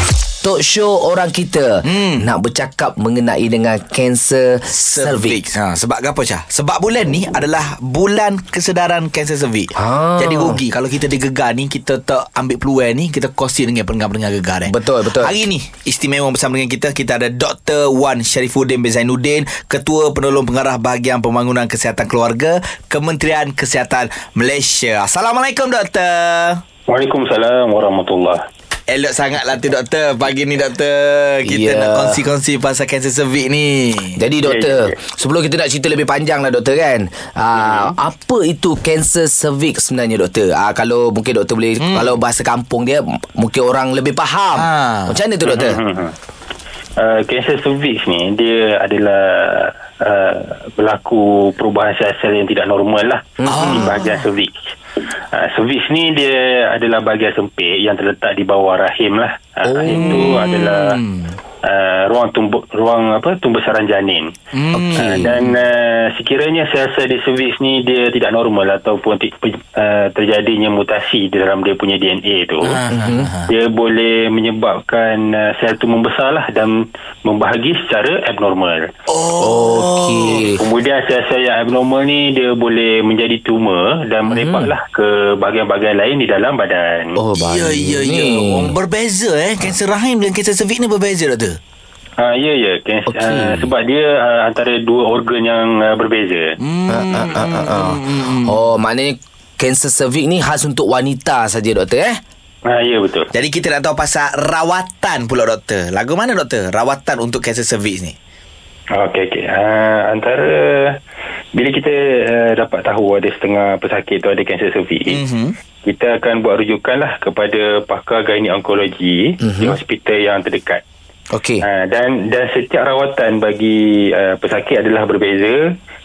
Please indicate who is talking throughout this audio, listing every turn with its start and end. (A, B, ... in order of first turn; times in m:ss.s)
0:00.4-0:05.4 A
0:01.8-0:02.2 B
0:04.7-0:26.6 B
0:09.8-0:10.6 A
0:14.6-0:15.4 A
0:26.9-0:28.4 C
0:28.9-0:34.2 B
0:31.4-0:32.2 A
0:34.2-0:45.8 A
0:34.4-0:34.9 C
0:37.6-0:37.9 C
0:41.8-0:42.2 B
0:44.5-0:45.2 B
0:45.4-0:46.1 C
0:47.0-0:54.6 C
0:53.4-0:54.2 A
0:53.5-0:53.9 B
0:55.3-1:01.0 C
0:59.6-1:00.4 A
0:59.8-1:01.3 B
1:01.7-1:04.3 C
1:04.5-1:05.4 B
1:04.7-1:05.4 A
1:04.9-1:12.8 C
1:12.6-1:13.5 B
1:12.9-1:13.3 A
1:13.5-1:18.9 C
1:19.1-1:20.5 B
1:19.4-1:20.6 A
1:20.4-1:27.2 C
1:24.2-1:24.7 A
1:27.2-1:28.7 A
1:27.3-1:31.6 B
1:32.2-1:36.5 C
1:33.1-1:33.7 A
1:36.6-1:38.6 B
1:36.9-1:42.2 A
1:42.7-1:43.3 C
1:43.3-1:48.1 B
1:48.9-1:50.9 C
1:51.5-1:55.2 C
1:55.1-1:55.5 B
1:55.8-2:00.8 C
1:59.4-1:59.8 A
2:01.3-2:01.6 A
2:01.6-2:05.6 C